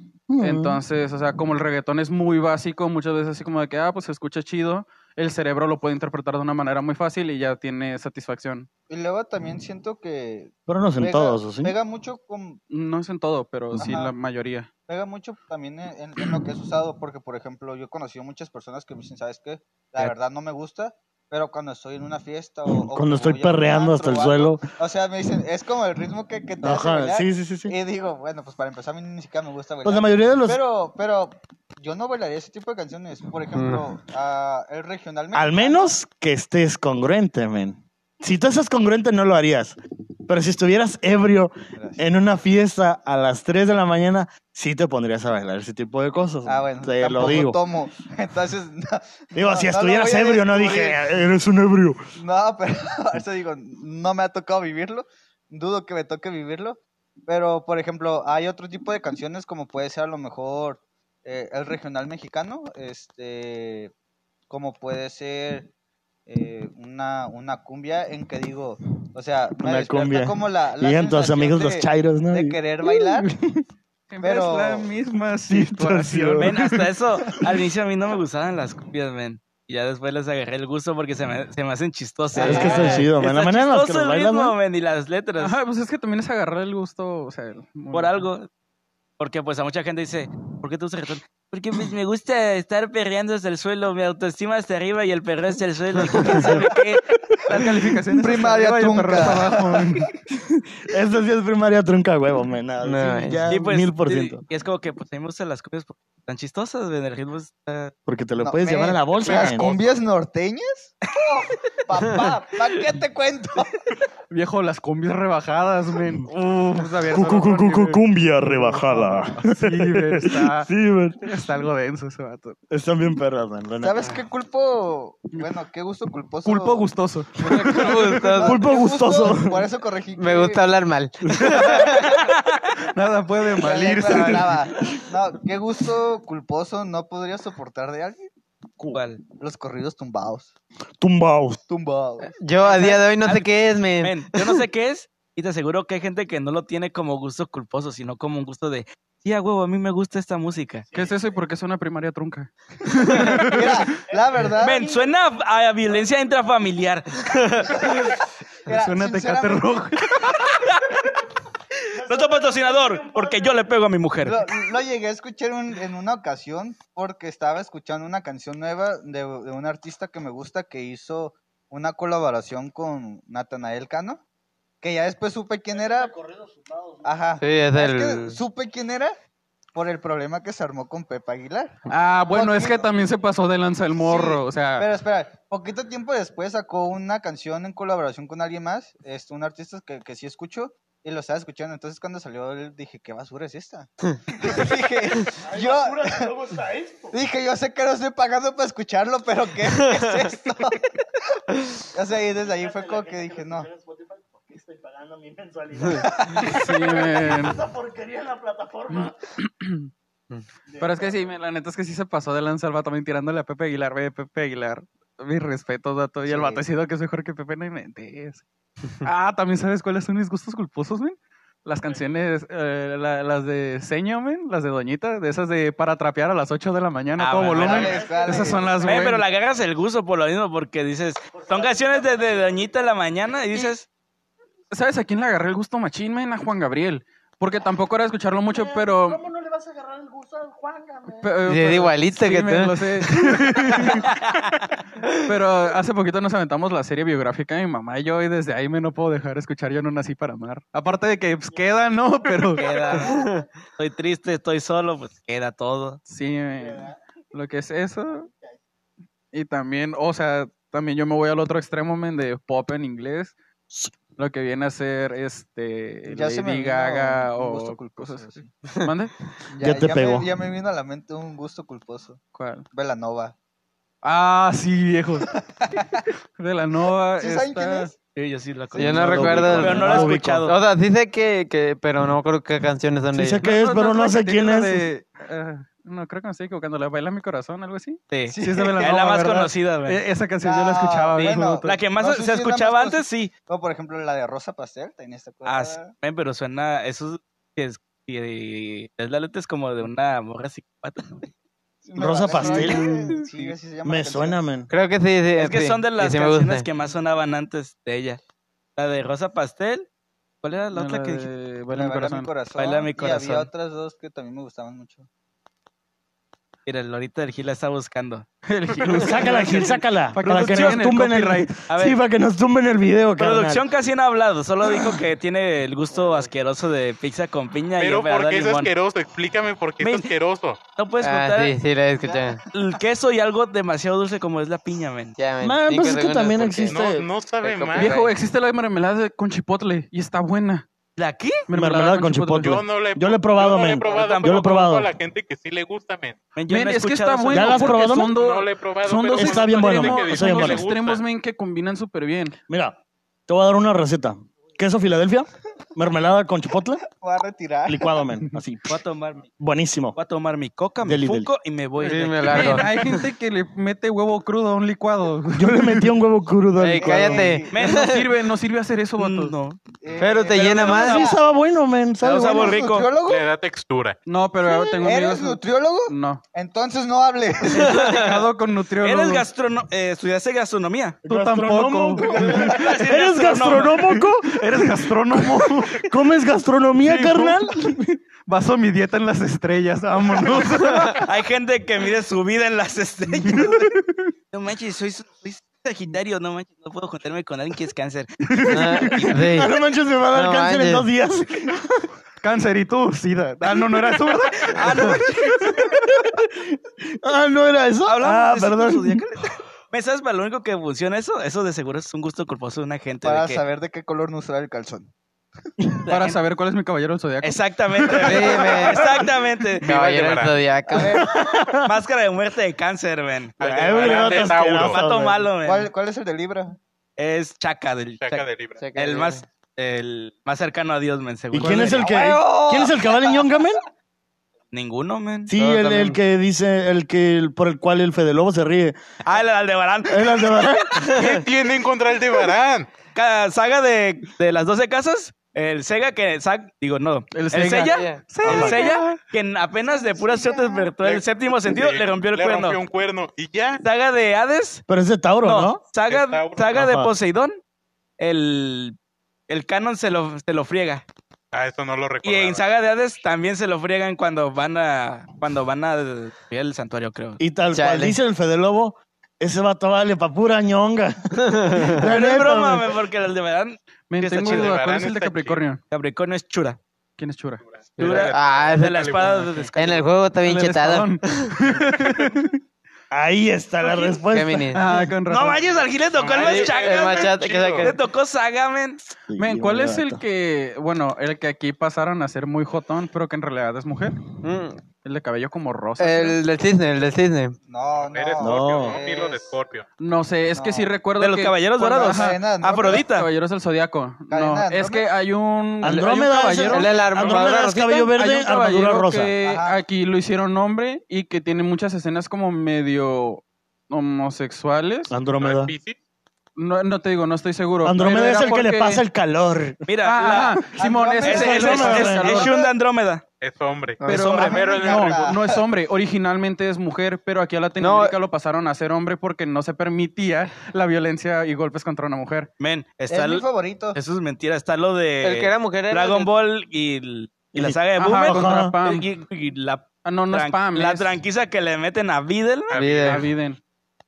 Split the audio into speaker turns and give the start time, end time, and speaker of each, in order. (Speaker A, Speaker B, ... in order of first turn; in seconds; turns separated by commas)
Speaker A: 0.3-0.8, Speaker B: 0.4-8.7, Speaker C: 8.9-12.6, Speaker A: 10.7-11.8, Speaker B: 12.7-14.7, Speaker C: 13.8-14.1, Speaker C: 14.9-35.9, Speaker A: 22.7-24.6, Speaker A: 26.6-27.8, Speaker A: 29.8-30.6, Speaker D: 33.6-33.8, Speaker A: 35.3-39.8, Speaker A: 40.3-47.6, Speaker C: 41.8-42.0, Speaker C: 46.5-51.2, Speaker A: 49.4-52.0, Speaker C: 52.2-63.9, Speaker C: 64.5-65.7, Speaker C: 66.3-73.3, Speaker A: 69.6-73.6, Speaker B: 74.1-76.9, Speaker C: 74.2-74.9, Speaker A: 75.5-76.5, Speaker E: 76.4-85.5, Speaker C: 82.3-83.0, Speaker A: 82.4-84.5, Speaker B: 82.6-82.9, Speaker D: 82.7-83.0, Speaker B: 85.4-88.2, Speaker E: 87.9-88.5, Speaker E: 89.2-97.0, Speaker B: 96.3-96.6, Speaker B: 97.5-100.1, Speaker C: 98.1-100.0, Speaker A: 100.4-104.4, Speaker D: 102.8-103.5, Speaker E: 103.5-107.9, Speaker A: 108.1-109.7, Speaker C: 108.4-113.9, Speaker F: 109.2-110.0, Speaker B: 114.3-122.6, Speaker A: 117.1-121.2, Speaker A: 122.7-124.0, Speaker C: 123.8-126.8, Speaker B: 126.5-128.2, Speaker C: 127.4-130.6, Speaker D: 127.5-128.7, Speaker A: 128.3-129.7, Speaker D: 130.2-132.0, Speaker A: 131.3-131.6, Speaker B: 131.4-134.6, Speaker C: 131.5-132.0, Speaker E: 132.0-132.6, Speaker C: 133.6-138.3, Speaker E: 138.9-139.2, Speaker C: 139.4-140.5, Speaker A: 141.0-141.6, Speaker C: 141.7-142.4, Speaker D: 142.3-144.6, Speaker E: 142.6-150.8, Speaker B: 150.9-153.8, Speaker C: 153.1-154.9, Speaker E: 154.6-157.9, Speaker A: 154.7-155.1, Speaker C: 158.7-159.8, Speaker B: 158.7-160.6, Speaker E: 161.9-164.4, Speaker A: 162.0-163.5, Speaker C: 164.2-174.2, Speaker C: 174.8-176.1, Speaker A: 175.7-177.2, Speaker C: 177.0-179.2, Speaker D: 177.4-178.4, Speaker C: 179.8-182.9, Speaker B: 181.9-184.9, Speaker C: 184.0-196.3, Speaker A: 194.4-197.2, Speaker C: 197.1-200.9, Speaker C: 201.8-203.7, Speaker A: 202.4-209.2, Speaker C: 206.0-206.5, Speaker B: 206.4-207.6, Speaker B: 208.9-209.9, Speaker A: 210.7-211.3, Speaker B: 210.8-218.4, Speaker C: 216.2-216.6, Speaker B: 219.0-229.2, Speaker E: 227.2-228.0, Speaker C: 227.5-229.1, Speaker E: 228.8-233.9, Speaker A: 231.4-231.7, Speaker B: 234.7-239.2, Speaker A: 238.5-241.3, Speaker B: 241.2-244.1, Speaker D: 241.5-243.4, Speaker E: 243.8-244.7, Speaker B: 245.1-252.7, Speaker E: 252.6-256.0, Speaker D: 253.0-253.4, Speaker B: 256.1-258.3, Speaker B: 259.3-263.4, Speaker B: 264.2-269.1, Speaker C: 266.1-268.5, Speaker C: 269.5-272.2, Speaker A: 269.6-270.3, Speaker B: 272.4-272.7, Speaker C: 272.7-273.3, Speaker B: 274.0-275.4, Speaker C: 275.5-276.0, Speaker B: 276.4-277.9, Speaker C: 277.2-277.9, Speaker E: 278.1-280.6, Speaker C: 278.8-279.7, Speaker D: 278.8-283.4, Speaker A: 279.0-280.5, Speaker A: 283.1-284.9, Speaker B: 283.4-291.8, Speaker E: 288.1-290.0, Speaker C: 288.3-288.9, Speaker C: 290.4-295.9, Speaker E: 291.2-293.3, Speaker E: 295.5-301.3, Speaker C: 301.9-304.4, Speaker A: 302.0-303.1, Speaker A: 303.8-304.7, Speaker D: 304.7-306.7, Speaker E: 305.4-308.2, Speaker E: 308.8-309.9, Speaker E: 310.4-311.3, Speaker B: 310.7-312.3, Speaker C: 311.7-315.1, Speaker E: 312.6-313.5, Speaker E: 316.7-318.3, Speaker B: 318.5-321.6, Speaker A: 318.9-323.6, Speaker E: 319.0-319.7, Speaker E: 320.3-320.6, Speaker E: 321.7-322.0, Speaker E: 323.2-328.7, Speaker F: 327.8-330.6, Speaker E: 329.8-330.1, Speaker E: 330.8-331.6, Speaker D: 331.0-332.4, Speaker C: 332.0-332.4, Speaker E: 332.5-335.2, Speaker D: 335.2-336.9, Speaker A: 335.4-337.1, Speaker F: 336.7-338.0, Speaker D: 337.4-338.1, Speaker B: 337.8-340.6, Speaker E: 341.0-341.4, Speaker B: 341.5-342.6, Speaker A: 341.5-344.9, Speaker F: 342.4-346.2, Speaker E: 343.7-344.5, Speaker E: 346.4-347.8, Speaker B: 346.5-352.4, Speaker A: 347.3-348.1, Speaker F: 348.1-351.0, Speaker A: 349.1-350.7, Speaker A: 352.5-356.8, Speaker C: 357.0-358.0, Speaker A: 357.7-358.8, Speaker E: 358.7-359.3, Speaker A: 359.4-360.0, Speaker E: 360.0-362.7, Speaker A: 360.8-361.3, Speaker D: 361.8-363.0, Speaker B: 362.2-365.9, Speaker A: 365.3-367.3, Speaker D: 366.6-368.1, Speaker C: 366.8-367.6, Speaker E: 367.5-368.0, Speaker B: 367.7-369.3, Speaker E: 369.0-369.6, Speaker C: 369.8-371.2, Speaker D: 370.0-371.0, Speaker E: 370.4-370.9, Speaker A: 370.8-372.6, Speaker E: 372.0-372.9, Speaker C: 372.1-373.3, Speaker F: 373.1-374.0, Speaker B: 374.1-376.2, Speaker C: 374.5-378.1, Speaker B: 377.5-379.3, Speaker E: 378.8-381.0, Speaker A: 381.1-388.0, Speaker B: 381.1-382.6, Speaker C: 382.0-382.9, Speaker E: 382.3-383.9, Speaker B: 383.9-385.9, Speaker B: 386.8-391.1, Speaker E: 390.9-393.7, Speaker B: 393.3-393.9, Speaker E: 394.3-398.5, Speaker B: 398.3-399.2, Speaker D: 398.5-399.5, Speaker A: 398.9-401.9, Speaker D: 400.1-400.9, Speaker B: 402.2-405.8, Speaker E: 404.5-405.4, Speaker A: 405.6-409.0, Speaker E: 407.9-413.4, Speaker C: 413.0-414.9, Speaker E: 415.9-416.2, Speaker B: 415.9-418.4, Speaker E: 417.2-419.7, Speaker D: 418.0-419.1, Speaker D: 419.6-421.2, Speaker F: 419.6-420.4, Speaker C: 420.7-421.3, Speaker A: 421.0-421.7, Speaker E: 421.6-425.7, Speaker A: 423.4-425.3, Speaker F: 423.6-424.8, Speaker C: 425.4-426.6, Speaker E: 427.0-431.9, Speaker F: 428.0-428.6, Speaker D: 428.6-429.2, Speaker A: 431.3-433.6, Speaker C: 431.5-433.4, Speaker E: 434.5-435.3, Speaker A: 435.3-438.8, Speaker D: 435.4-436.0, Speaker E: 439.0-440.5, Speaker A: 439.9-440.9, Speaker F: 440.8-442.7, Speaker E: 442.9-452.6, Speaker B: 447.1-449.0, Speaker D: 447.4-448.0, Speaker A: 448.3-448.6, Speaker C: 449.7-450.7, Speaker F: 450.8-453.6, Speaker E: 453.6-454.6, Speaker A: 454.7-455.6, Speaker E: 455.2-457.4, Speaker F: 455.9-456.6, Speaker A: 456.5-456.9, Speaker E: 458.0-458.8, Speaker E: 459.3-460.8, Speaker F: 461.3-462.4, Speaker E: 462.0-467.2, Speaker A: 467.2-472.7, Speaker D: 467.5-468.0, Speaker D: 471.2-471.8, Speaker E: 471.8-474.6, Speaker B: 473.9-475.6, Speaker F: 474.2-475.4, Speaker E: 475.7-476.6, Speaker B: 477.0-477.4, Speaker F: 477.6-479.5, Speaker D: 477.8-481.3, Speaker E: 477.8-479.9, Speaker B: 480.2-482.4, Speaker A: 482.9-484.6, Speaker D: 484.1-484.8, Speaker B: 484.5-485.4, Speaker E: 485.1-488.8, Speaker F: 485.9-487.7, Speaker D: 486.1-487.8, Speaker A: 489.1-490.0, Speaker B: 489.2-494.0, Speaker D: 494.2-494.6, Speaker B: 494.8-496.2, Speaker D: 495.8-497.4, Speaker C: 497.5-499.3, Speaker F: 497.8-499.7, Speaker A: 498.2-498.8, Speaker B: 499.8-507.2, Speaker C: 500.4-500.7, Speaker E: 501.0-503.1, Speaker C: 501.6-502.8, Speaker C: 504.1-504.9, Speaker A: 505.6-509.1, Speaker D: 506.5-507.9, Speaker B: 507.9-514.9, Speaker C: 509.2-509.6, Speaker A: 514.9-515.5, Speaker F: 515.2-515.8, Speaker B: 516.4-518.8, Speaker A: 517.6-519.6, Speaker E: 519.7-520.5, Speaker B: 519.8-522.5, Speaker C: 520.5-522.1, Speaker E: 521.0-523.0, Speaker A: 521.1-522.3, Speaker F: 523.2-525.1, Speaker D: 523.8-524.2, Speaker B: 523.9-532.3, Speaker C: 523.9-525.4, Speaker D: 527.6-528.0, Speaker E: 532.4-542.6, Speaker C: 532.9-533.8, Speaker D: 535.0-536.1, Speaker A: 537.3-538.5, Speaker B: 537.8-538.9, Speaker B: 539.8-541.0, Speaker F: 542.5-543.0, Speaker D: 542.5-543.0, Speaker B: 542.8-543.4